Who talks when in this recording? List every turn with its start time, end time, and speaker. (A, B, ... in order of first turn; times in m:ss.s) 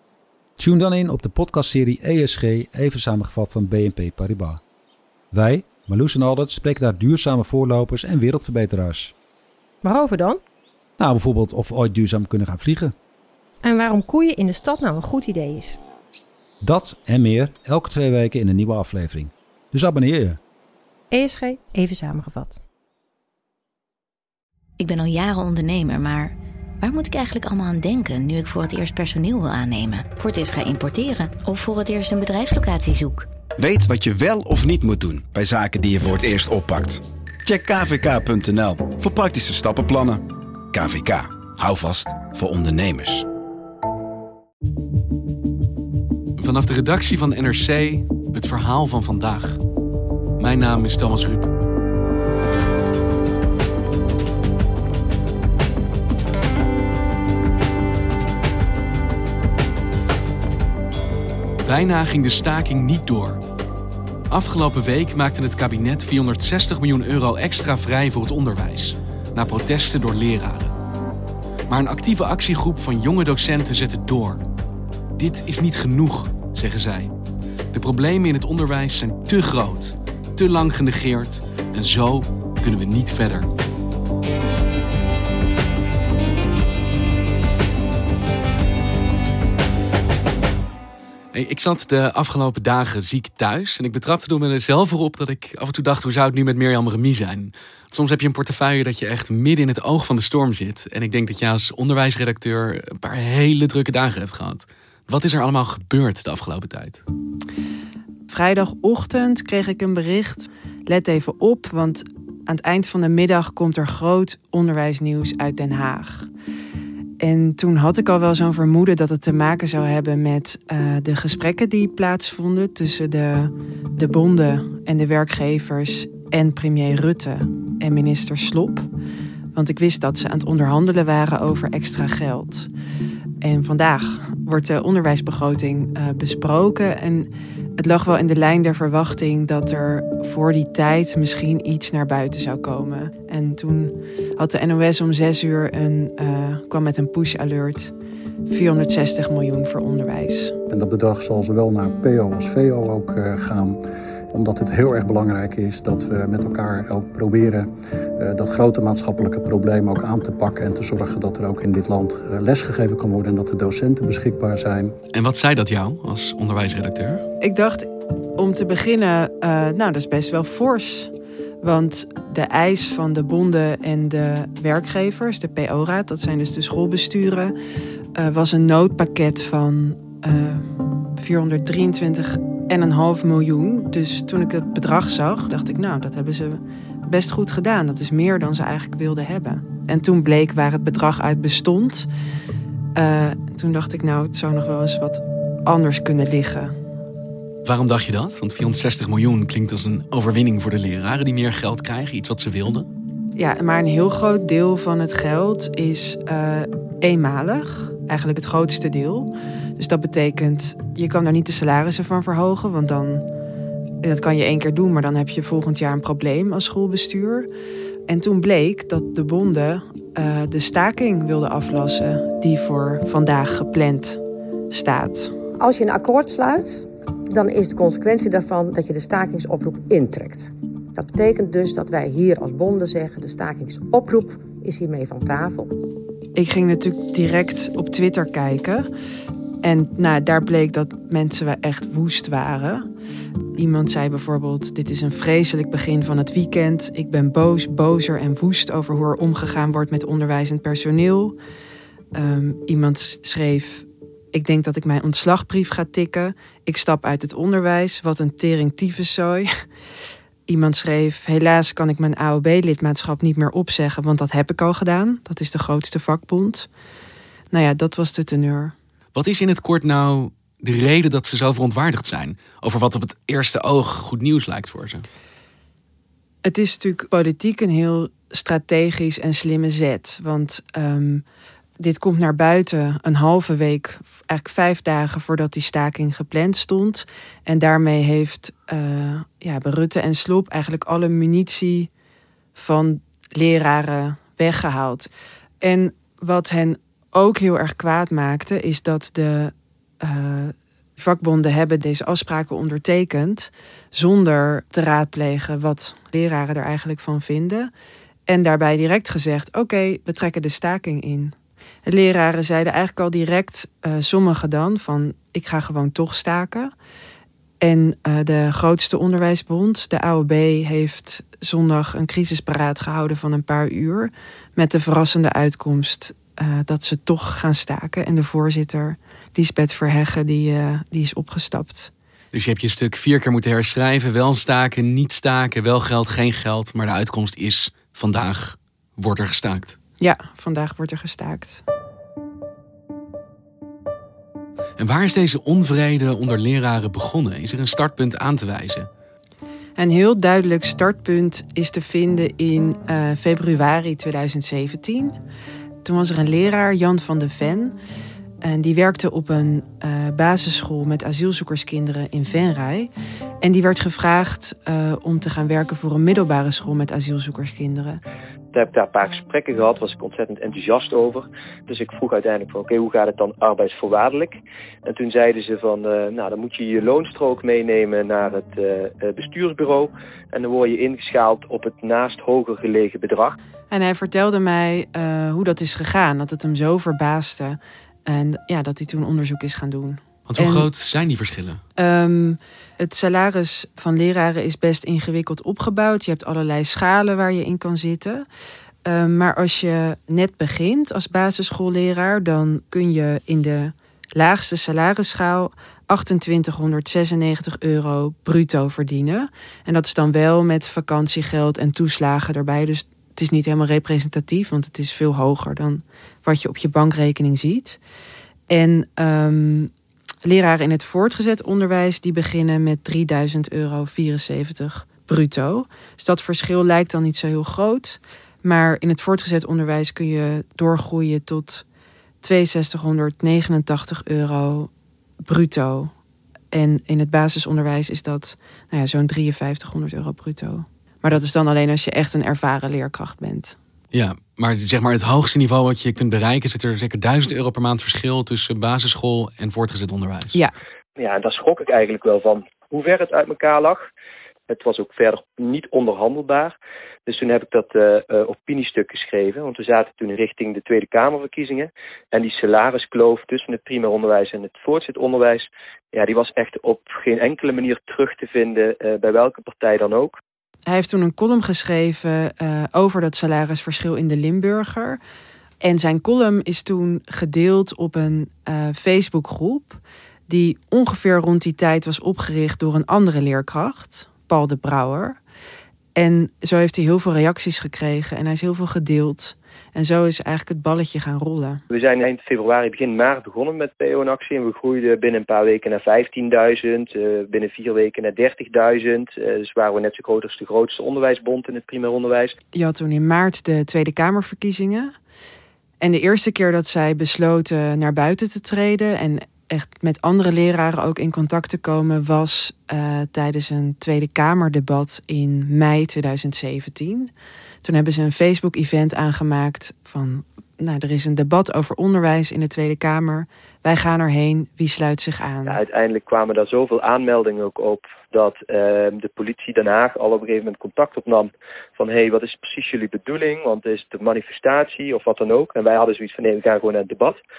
0:00.6-0:04.6 A
0:05.3-0:09.1 A
0:09.8-0:10.4 B
0:11.0-0:13.0 A
0:13.6-0:15.8 B
0:16.6-0:20.4 A
0:21.1-0:22.6 B
0:24.8-0:33.3 C
0:33.6-0:40.2 D
0:40.7-0:43.2 D
0:46.4-0:49.6 E
0:50.4-0:51.5 E
1:01.6-1:03.4 E
1:04.3-1:10.8 E
1:11.7-1:14.4 E
1:15.2-1:17.1 E
1:17.7-1:23.5 E
1:31.3-1:47.0 E
1:48.3-1:56.3 F
1:57.2-2:08.9 F
2:09.5-2:12.7 F
2:13.4-2:27.9 F
2:28.5-2:30.6 F
2:30.7-2:33.8 G
2:34.3-2:45.0 G
2:45.1-2:47.2 E
2:47.4-2:57.5 F
2:58.2-3:12.1 F
3:13.0-3:16.7 F
3:17.6-3:22.9 E
3:23.4-3:33.2 F
3:34.0-3:37.5 F
3:38.1-3:45.3 F
3:45.6-3:55.7 H
3:56.4-3:58.9 F
3:59.6-4:02.9 F
4:03.6-4:11.4 F
4:12.1-4:19.5 F
4:20.5-4:26.7 F
4:27.5-4:28.8 F
4:29.1-4:35.0 E
4:36.4-4:41.2 F
4:41.8-4:51.9 F
4:52.6-4:55.1 F
4:55.6-5:07.7 F
5:08.3-5:16.7 F
5:17.6-5:31.9 F
5:32.3-5:39.8 E
5:40.0-5:41.6 F
5:44.8-5:48.9 E
5:49.8-5:55.2 F
5:55.8-5:57.8 F
5:58.4-6:02.9 F
6:03.4-6:08.0 F
6:08.5-6:23.4 I
6:23.7-6:30.7 F
6:30.3-6:31.6 E
6:31.8-6:38.2 F
6:38.8-6:57.8 F
6:58.5-6:59.7 F
7:00.2-7:11.6 F
7:12.2-7:14.7 F
7:15.3-7:15.9 F
7:16.5-7:23.6 F
7:23.9-7:30.4 E
7:31.0-7:33.8 I
7:34.5-7:36.6 I
7:37.1-7:50.2 I
7:50.7-7:55.0 F
7:55.6-8:05.2 F
8:06.0-8:11.6 F
8:11.7-8:22.3 I
8:22.6-8:24.9 F
8:25.8-8:37.1 F
8:37.6-8:45.6 F
8:45.5-8:57.2 I